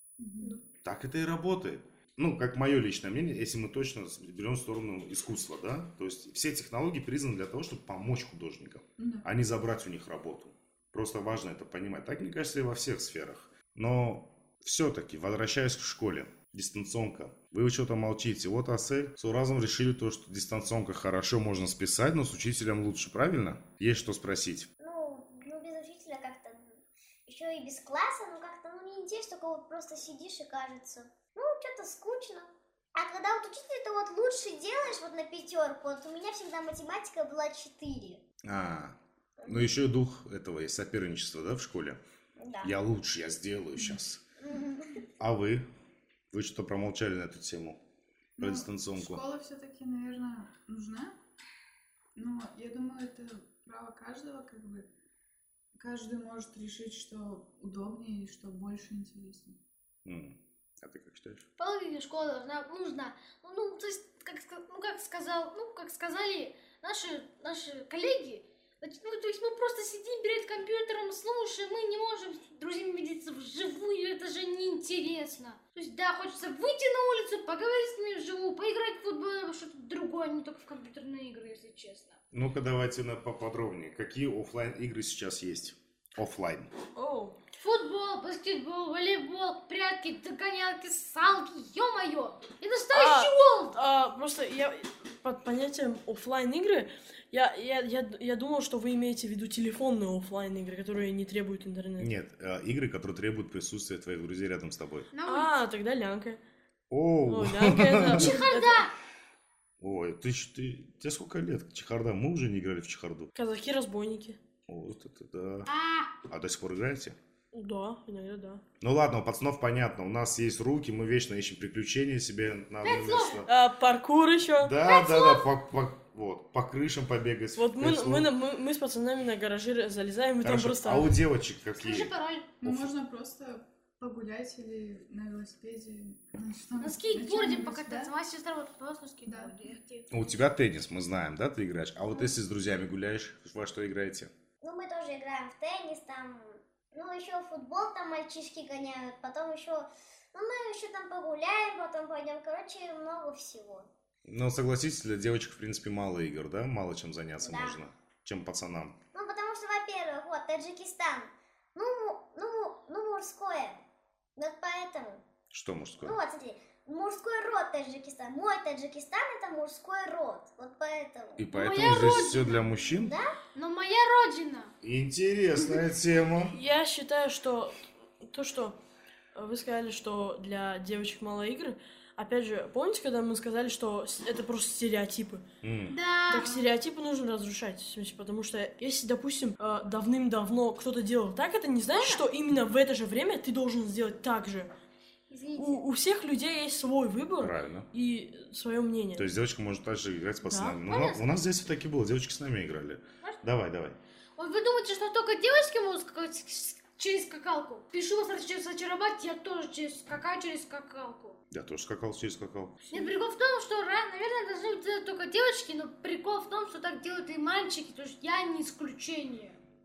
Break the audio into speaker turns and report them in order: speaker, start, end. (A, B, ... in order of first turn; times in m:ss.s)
0:00.2-0:00.6 A
0:00.8-0:24.7 B
0:09.0-0:09.3 A
0:24.8-0:38.2 C
0:38.4-0:42.0 B
0:39.4-0:39.8 C
0:42.4-0:42.7 C
0:42.6-0:44.2 B
0:44.4-0:45.0 C
0:45.2-0:45.7 B
0:46.3-0:47.8 B
0:48.4-0:49.2 B
0:48.4-0:51.2 A
0:52.1-0:54.9 A
0:55.7-0:59.6 A
1:00.0-1:01.5 B
1:01.6-1:22.2 D
1:22.3-1:26.7 B
1:26.9-1:27.4 E
1:27.6-1:33.8 D
1:32.9-1:42.1 E
1:42.0-1:45.1 B
1:45.1-1:45.5 D
1:45.2-1:46.4 E
1:46.9-1:48.4 B
1:47.2-1:48.8 E
1:48.1-1:48.9 D
1:49.8-1:53.3 B
1:53.3-1:54.4 E
1:54.7-1:55.7 B
1:55.6-1:56.1 D
1:56.3-1:57.2 B
1:57.5-1:58.6 E
1:58.8-2:03.5 B
2:02.8-2:03.4 D
2:03.5-2:04.7 E
2:04.6-2:08.3 B
2:04.8-2:05.5 D
2:07.6-2:11.2 E
2:10.4-2:12.9 B
2:11.8-2:12.5 D
2:12.6-2:18.1 A
2:16.8-2:20.1 D
2:19.2-2:19.6 A
2:20.1-2:24.3 B
2:24.6-2:33.9 C
2:34.2-2:39.0 B
2:37.4-2:37.8 C
2:39.1-2:43.8 C
2:44.4-2:45.2 C
2:45.5-2:46.2 B
2:46.0-2:51.4 C
2:51.4-2:53.1 B
2:51.5-2:52.7 D
2:52.8-2:53.3 C
2:53.5-2:54.7 D
2:54.8-2:56.6 B
2:56.5-2:58.8 E
2:59.3-3:05.4 E
3:05.6-3:06.0 B
3:05.9-3:06.7 D
3:06.3-3:14.7 E
3:11.9-3:12.2 D
3:15.3-3:15.8 D
3:15.6-3:19.3 E
3:17.4-3:17.9 B
3:19.2-3:24.0 B
3:20.4-3:20.8 E
3:20.8-3:21.3 D
3:24.4-3:31.4 D
3:31.5-3:33.0 B
3:32.9-3:39.6 D